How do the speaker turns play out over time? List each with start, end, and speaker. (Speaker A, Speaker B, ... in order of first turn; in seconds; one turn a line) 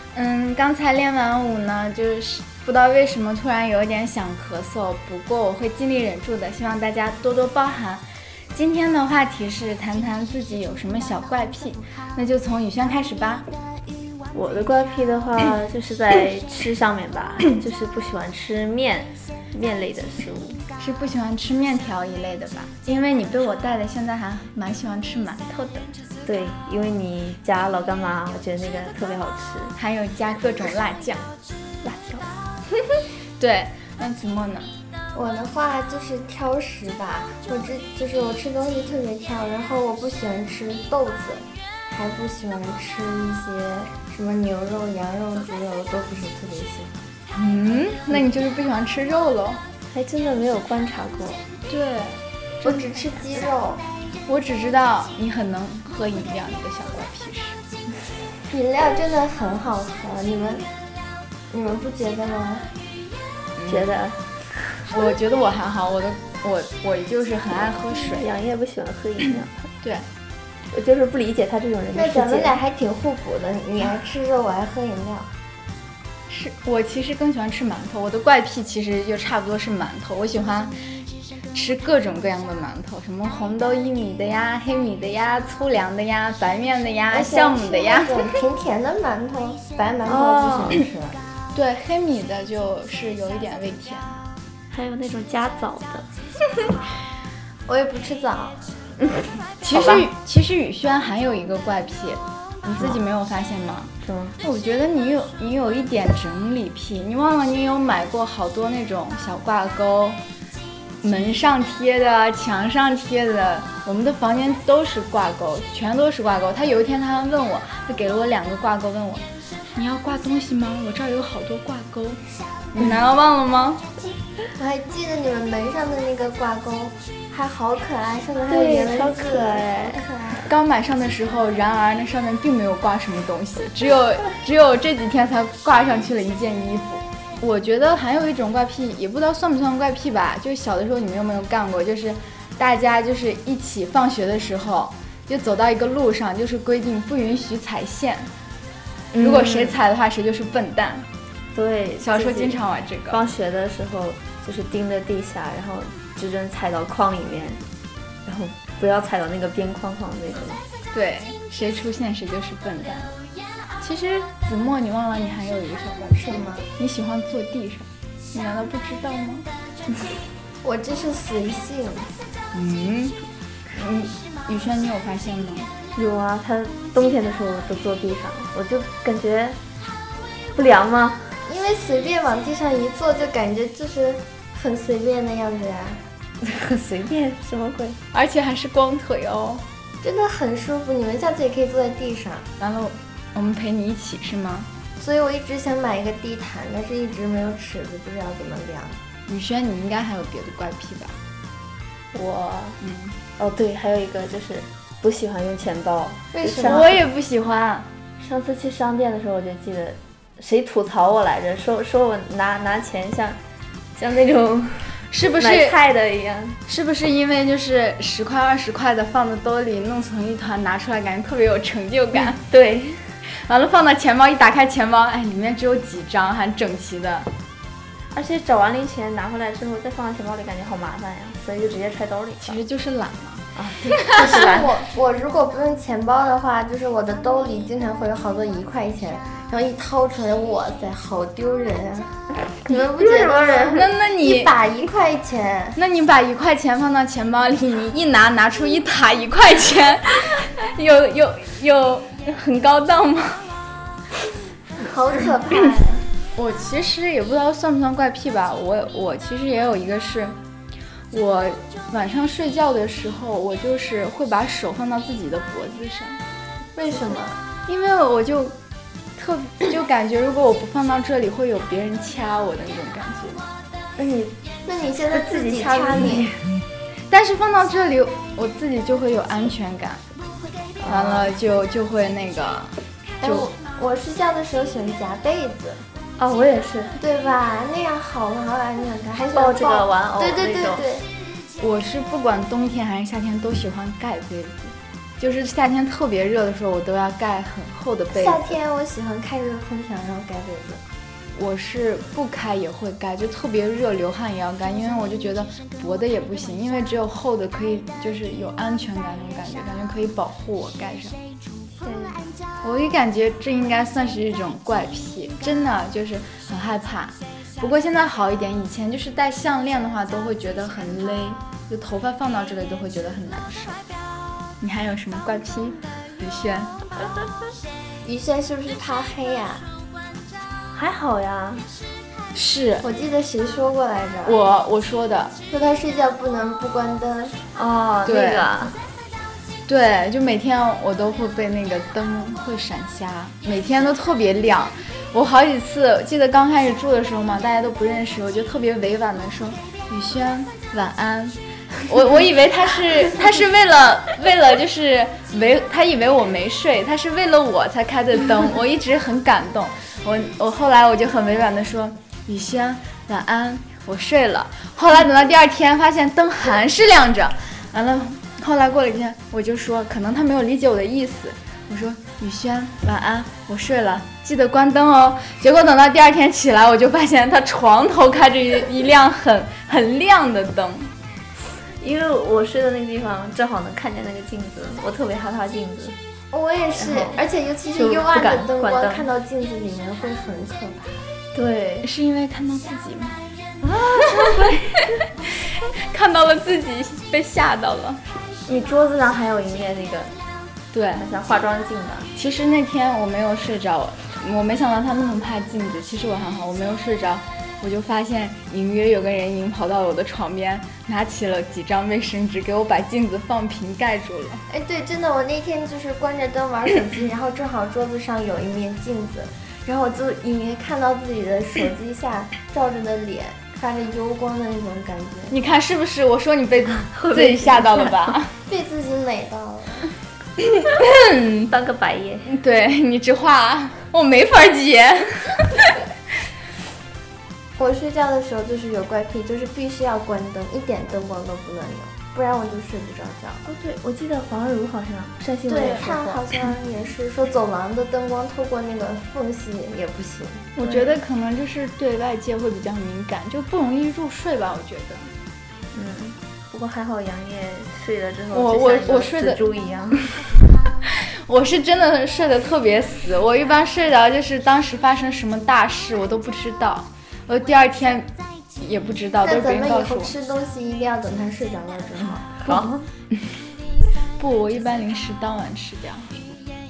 Speaker A: 0.1-13.4
Speaker B: 14.3-20.6
Speaker A: 20.8-25.9
Speaker B: 26.2-29.7
Speaker A: 29.8-31.3
Speaker B: 31.8-32.3
Speaker A: 33.4-34.7
Speaker C: 35.1-47.0
Speaker A: 47.4-49.6
Speaker B: 49.9-51.4
Speaker A: 51.7-52.2
Speaker C: 52.6-53.8
Speaker A: 54.3-57.6
Speaker C: 58.5-60.7
Speaker C: 61.5-62.7
Speaker A: 63.6-64.0
Speaker B: 63.7-64.7
Speaker A: 64.9-68.3
Speaker B: 68.1-69.7
Speaker B: 70.7-72.6
Speaker C: 71.9-75.3
Speaker A: 76.3-80.7
Speaker A: 81.5-88.3
Speaker C: 87.1-91.2
Speaker B: 90.1-90.8
Speaker A: 91.5-94.2
Speaker B: 94.7-96.1
Speaker C: 97.7-98.8
Speaker A: 99.6-110.2
Speaker B: 99.7-100.1
Speaker B: 102.8-103.0
Speaker B: 104.0-104.4
Speaker A: 111.0-119.2
Speaker A: 119.8-122.2
Speaker A: 122.7-123.8
Speaker C: 124.6-130.5
Speaker B: 128.5-130.0
Speaker A: 130.4-148.3
Speaker B: 149.1-149.8
Speaker A: 149.2-151.1
Speaker B: 151.5-157.6
Speaker A: 152.0-153.3
Speaker B: 158.3-160.6
Speaker A: 160.9-163.1
Speaker A: 163.8-169.5
Speaker C: 166.3-166.7
Speaker C: 170.6-172.3
Speaker A: 172.5-173.2
Speaker A: 173.7-175.7
Speaker B: 175.9-179.6
Speaker B: 180.6-181.4
Speaker C: 181.4-186.0
Speaker B: 186.4-188.0
Speaker A: 188.1-189.6
Speaker C: 190.0-192.5
Speaker A: 192.6-194.7
Speaker C: 195.0-199.0
Speaker A: 199.3-201.2
Speaker B: 202.1-202.8
Speaker A: 202.8-203.2
Speaker B: 203.4-207.0
Speaker C: 206.3-207.0
Speaker A: 206.6-207.9
Speaker B: 208.2-213.4
Speaker B: 214.0-216.6
Speaker A: 215.1-215.8
Speaker A: 216.7-222.4
Speaker B: 222.4-223.2
Speaker A: 223.3-227.3
Speaker B: 228.1-232.6
Speaker A: 232.4-233.4
Speaker B: 233.6-234.7
Speaker C: 234.1-245.8
Speaker B: 243.4-243.7
Speaker A: 243.7-244.5
Speaker A: 245.8-253.5
Speaker C: 254.8-256.1
Speaker A: 256.3-260.4
Speaker A: 261.1-266.2
Speaker C: 266.8-267.4
Speaker A: 267.7-268.6
Speaker A: 269.2-273.5
Speaker B: 274.0-274.4
Speaker C: 274.6-276.3
Speaker B: 275.1-276.6
Speaker A: 277.1-280.0
Speaker B: 280.8-281.3
Speaker A: 280.9-283.5
Speaker C: 283.2-285.9
Speaker B: 286.2-287.0
Speaker C: 287.0-291.1
Speaker B: 289.3-290.9
Speaker A: 291.6-298.6
Speaker C: 298.1-300.8
Speaker A: 301.4-311.2
Speaker B: 311.8-312.3
Speaker A: 312.6-323.8
Speaker A: 324.6-326.7
Speaker C: 328.0-329.6
Speaker B: 330.7-331.7
Speaker A: 332.3-332.9
Speaker C: 332.8-334.4
Speaker A: 334.2-335.4
Speaker C: 335.5-337.4
Speaker B: 337.5-338.8
Speaker A: 338.1-338.7
Speaker A: 339.7-380.9
Speaker B: 381.6-386.0
Speaker C: 386.3-391.0
Speaker B: 386.7-387.2
Speaker B: 387.7-389.1
Speaker B: 391.3-391.9
Speaker A: 391.8-393.2
Speaker B: 393.6-394.6
Speaker A: 395.9-398.0
Speaker B: 398.5-400.2
Speaker A: 400.7-401.1
Speaker B: 400.9-402.1
Speaker A: 402.1-414.4
Speaker C: 414.5-425.4
Speaker A: 425.3-428.3
Speaker B: 426.9-428.1
Speaker C: 428.5-429.9
Speaker A: 430.6-431.5
Speaker B: 431.5-432.3
Speaker A: 432.3-435.6
Speaker C: 437.6-443.4
Speaker B: 443.5-446.3
Speaker C: 445.5-450.9
Speaker A: 450.6-455.1
Speaker B: 455.7-460.1
Speaker A: 458.3-459.4
Speaker A: 461.3-470.1
Speaker C: 469.2-472.3
Speaker B: 472.4-472.9
Speaker A: 472.4-472.7
Speaker A: 474.2-476.2